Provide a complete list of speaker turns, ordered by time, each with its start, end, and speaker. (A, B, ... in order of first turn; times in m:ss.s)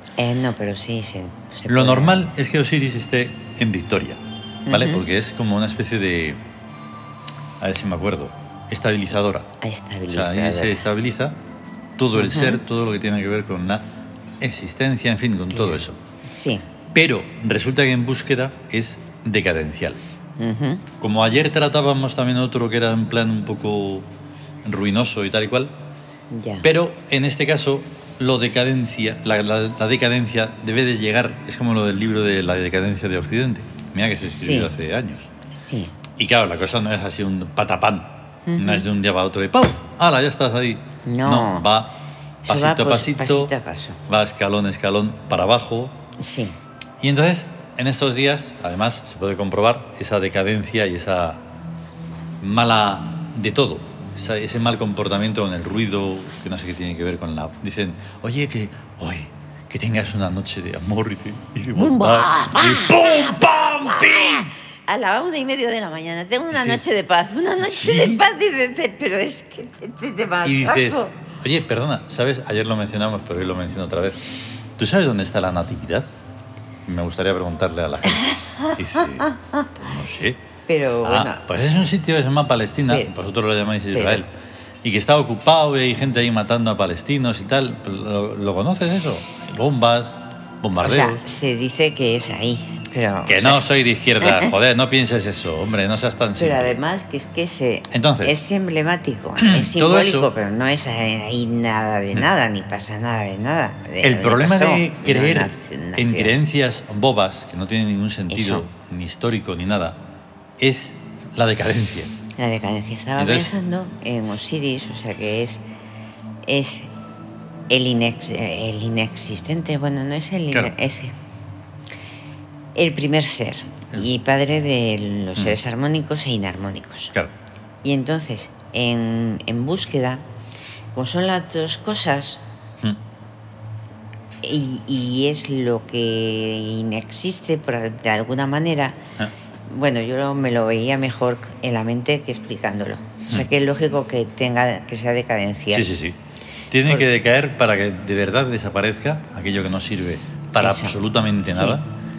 0:00.2-0:02.3 A
0:01.7-0:06.4 B
0:04.7-0:05.0 A
0:07.6-0:09.5 B
0:09.6-0:10.8 A
0:10.1-0:11.4 B
0:12.0-0:13.8 B
0:12.1-0:12.6 A
0:14.4-0:16.0 B
0:15.5-0:16.7 A
0:16.9-0:20.0 B
0:20.4-0:20.9 A
0:21.0-0:24.1 B
0:24.6-0:25.7 B
0:26.3-0:26.7 A
0:26.6-0:35.3 B
0:34.2-0:34.7 A
0:35.5-0:35.9 A
0:36.2-0:43.5 B
0:38.5-0:38.9 A
0:41.0-0:41.7 A
0:42.4-0:44.0 A
0:44.1-0:46.0 B
0:46.2-0:46.6 A
0:47.0-0:51.4 B
0:52.4-1:04.5 B
1:01.7-1:11.2 A
1:06.5-1:06.8 B
1:07.6-1:08.2 B
1:10.4-1:16.1 B
1:16.9-1:20.4 B
1:18.1-1:19.7 A
1:20.7-1:21.9 A
1:21.0-1:24.3 B
1:23.9-1:24.2 A
1:24.8-1:31.2 B
1:30.8-1:33.7 A
1:33.3-1:36.8 B
1:34.2-1:34.5 A
1:36.4-1:46.4 A
1:37.9-1:38.4 B
1:39.4-1:40.3 B
1:44.0-1:50.0 B
1:48.3-1:48.7 A
1:50.6-1:52.1 B
1:52.4-1:55.6 A
1:53.2-1:53.5 B
1:56.4-1:56.9 A
1:57.7-2:01.1 A
2:02.8-2:07.2 A
2:07.8-2:10.2 A
2:10.9-2:12.4 A
2:14.4-2:19.0 A
2:19.7-2:25.9 A
2:25.7-2:26.2 B
2:26.7-2:31.8 B
2:26.8-2:27.1 A
2:30.6-2:31.8 A